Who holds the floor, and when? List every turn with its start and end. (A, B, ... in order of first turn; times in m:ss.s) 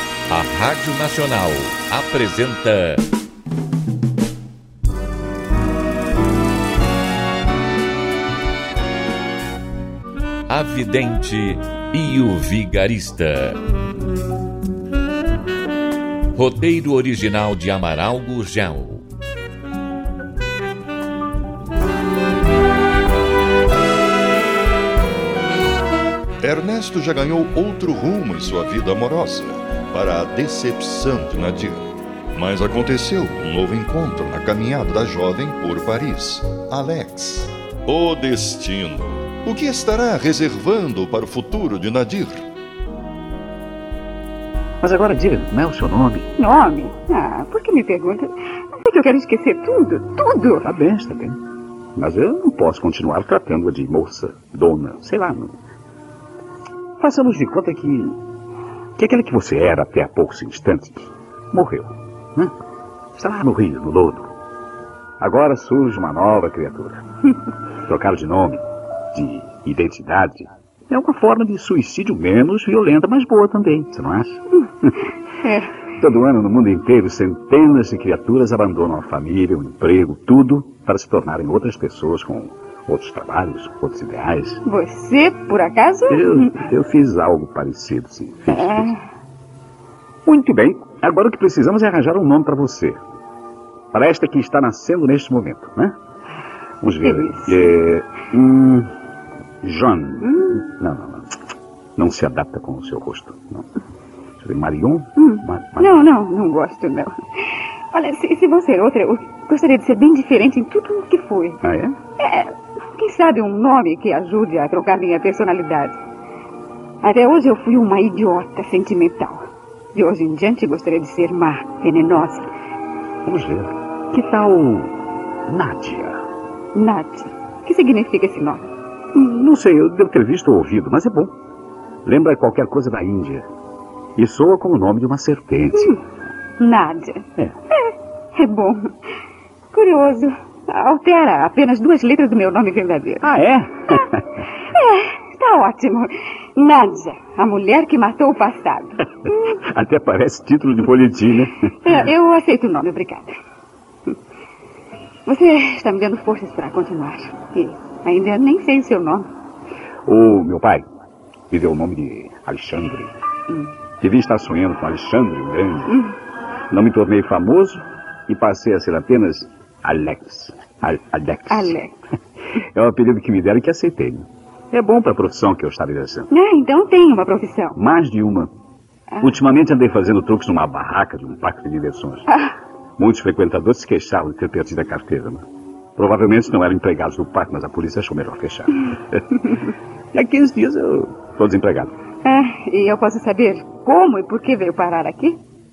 0:00.3-0:03.0 A
0:10.5-0:13.6 A
0:16.3-0:19.0 A
0:26.4-0:42.4 B
0:44.8-0:46.3 C
0:46.4-0:50.7 D
0:50.6-0:51.4 C
0:51.9-0:55.5 C
0:57.0-0:58.2 C
0:59.0-1:02.5 C
1:03.2-1:04.3 C
1:05.2-1:07.0 C
1:07.8-1:08.6 C
1:09.1-1:14.9 C
1:15.4-1:15.7 D
1:15.9-1:24.6 C
1:24.6-1:26.5 D
1:26.1-1:28.9 C
1:28.5-1:29.0 D
1:30.2-1:33.0 C
1:33.9-1:35.9 C
1:36.8-1:38.9 C
1:37.0-1:37.7 D
1:39.6-1:41.3 C
1:40.2-1:40.6 D
1:42.0-1:43.6 C
1:44.4-1:46.1 C
1:45.2-1:47.1 D
1:47.9-1:51.6 D
1:51.6-1:52.0 C
1:52.2-1:56.0 D
1:57.0-2:02.5 D
2:03.2-2:05.0 C
2:05.5-2:06.2 C
2:06.7-2:08.7 D
2:09.1-2:11.3 C
2:12.0-2:13.4 C
2:14.2-2:16.0 C
2:16.6-2:17.3 D
2:18.3-2:18.9 D
2:19.7-2:23.3 D
2:23.2-2:24.2 C
2:24.7-2:29.0 D
2:29.4-2:31.6 C
2:31.8-2:33.4 D
2:35.2-2:39.3 D
2:40.0-2:40.8 C
2:41.5-2:43.1 C
2:44.0-2:46.0 C
2:45.9-2:46.1 D
2:46.7-2:51.8 C
2:51.5-2:51.9 D
2:52.6-2:56.3 C
2:56.3-2:57.8 D
2:57.7-2:58.5 C
2:59.2-3:02.3 C
3:03.0-3:05.4 C
3:06.0-3:09.2 C
3:10.1-3:11.9 C
3:12.2-3:15.4 D